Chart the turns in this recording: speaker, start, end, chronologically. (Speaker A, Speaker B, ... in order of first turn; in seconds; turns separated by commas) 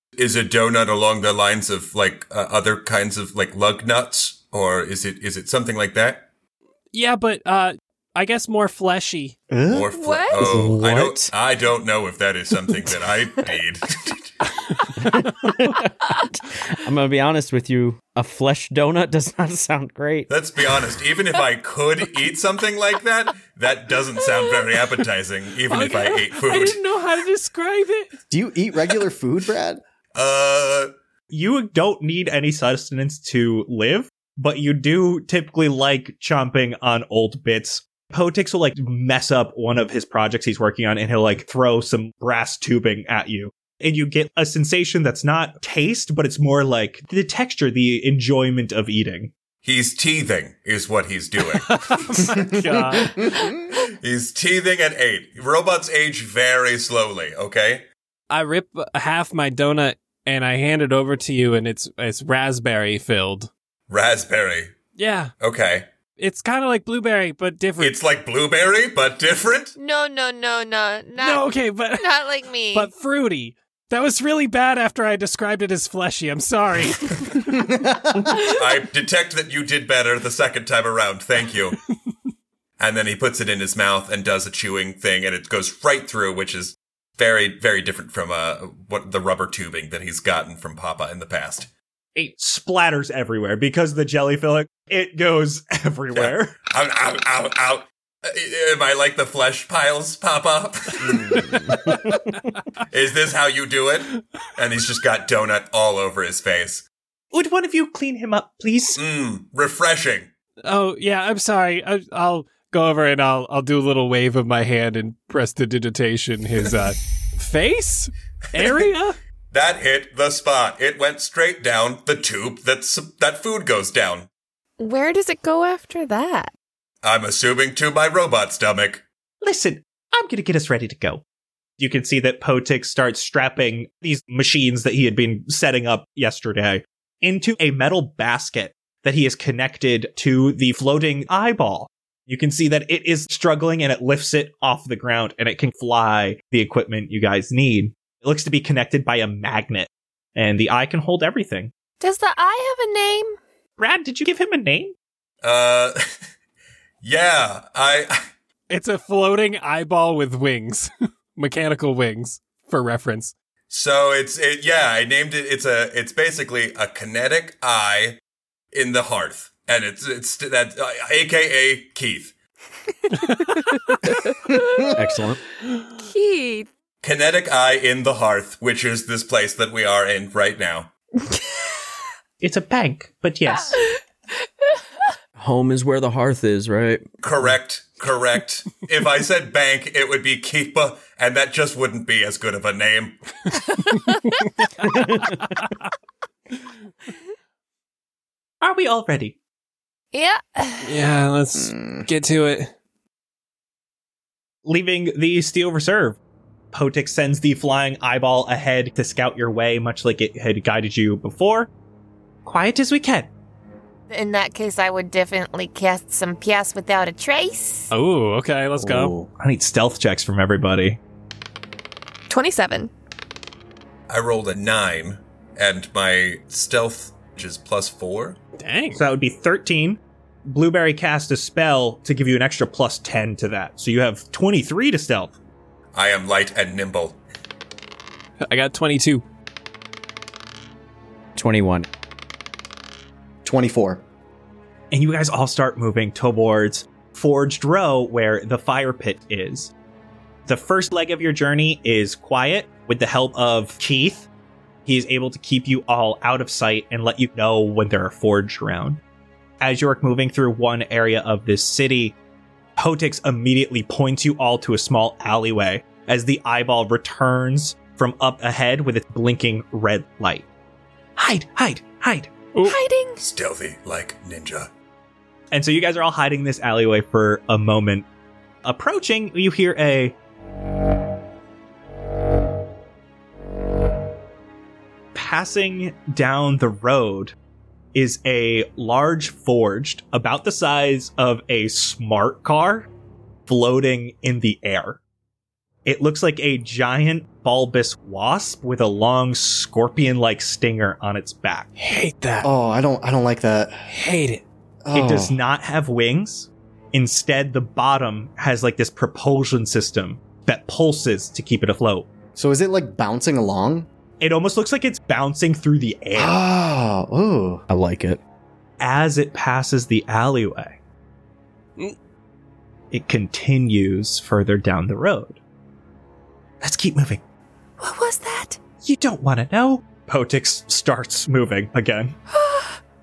Speaker A: 0.1-6.2, Speaker B: 6.9-9.3, Speaker C: 9.5-9.9, Speaker A: 9.7-14.2, Speaker D: 9.9-10.5, Speaker E: 10.4-11.3, Speaker E: 15.0-20.3, Speaker A: 20.3-26.8, Speaker B: 25.7-28.1, Speaker C: 28.3-29.8, Speaker A: 30.1-30.9, Speaker F: 31.3-49.3, Speaker A: 49.6-51.7, Speaker B: 51.6-53.2, Speaker C: 52.9-53.5, Speaker A: 53.9-57.8, Speaker B: 58.3-63.5, Speaker A: 63.9-64.7, Speaker B: 65.0-65.3, Speaker A: 65.4-65.9, Speaker B: 66.2-68.0, Speaker A: 67.8-69.7, Speaker D: 69.8-72.9, Speaker B: 71.2-72.2, Speaker B: 72.7-77.5, Speaker C: 77.5-78.3, Speaker A: 78.4-81.8, Speaker A: 82.8-91.7, Speaker F: 92.1-96.5, Speaker A: 96.1-102.0, Speaker A: 102.9-106.8, Speaker F: 107.3-109.0, Speaker A: 108.9-110.3, Speaker B: 110.6-119.2, Speaker A: 119.5-124.3, Speaker D: 124.8-126.5, Speaker A: 127.0-129.0, Speaker F: 129.4-131.2, Speaker F: 131.8-151.7, Speaker D: 152.0-153.4, Speaker F: 153.8-154.9, Speaker A: 155.4-156.0, Speaker A: 157.0-158.2, Speaker B: 158.7-163.3, Speaker A: 163.7-168.2, Speaker A: 168.7-172.3, Speaker D: 173.2-174.9, Speaker E: 174.9-175.4, Speaker D: 176.0-176.7, Speaker A: 177.0-180.9, Speaker F: 182.4-183.8, Speaker E: 185.4-187.0, Speaker A: 187.2-193.2, Speaker F: 198.6-199.4, Speaker D: 200.1-200.9, Speaker B: 200.8-202.7, Speaker C: 201.6-202.1, Speaker F: 204.6-206.2, Speaker F: 206.7-211.7, Speaker F: 212.4-213.3, Speaker D: 214.1-217.9, Speaker B: 217.9-219.1, Speaker C: 218.8-219.3, Speaker F: 219.4-221.0, Speaker D: 222.3-222.9, Speaker A: 224.1-228.4, Speaker B: 228.6-229.0, Speaker F: 228.9-235.3, Speaker A: 235.9-237.2, Speaker B: 238.4-239.2, Speaker E: 241.3-241.9, Speaker C: 243.4-244.0, Speaker F: 244.9-249.7, Speaker F: 250.4-254.3, Speaker F: 254.8-259.0, Speaker F: 259.6-262.1, Speaker F: 262.8-270.4, Speaker F: 271.2-272.3, Speaker D: 272.6-273.2, Speaker A: 273.2-274.7, Speaker F: 275.5-278.1, Speaker F: 278.6-280.1, Speaker F: 285.1-287.3, Speaker F: 287.9-292.9, Speaker F: 293.5-295.0, Speaker F: 295.8-301.7, Speaker B: 301.8-302.5, Speaker C: 302.4-303.7, Speaker B: 303.9-304.4, Speaker C: 304.8-305.4, Speaker F: 304.9-312.1, Speaker C: 312.4-313.9, Speaker F: 314.2-316.4, Speaker C: 316.1-317.6, Speaker E: 317.7-318.2, Speaker F: 318.8-320.8, Speaker F: 322.9-325.4, Speaker F: 326.6-327.2, Speaker D: 327.8-328.6, Speaker F: 328.8-332.1, Speaker D: 332.3-332.8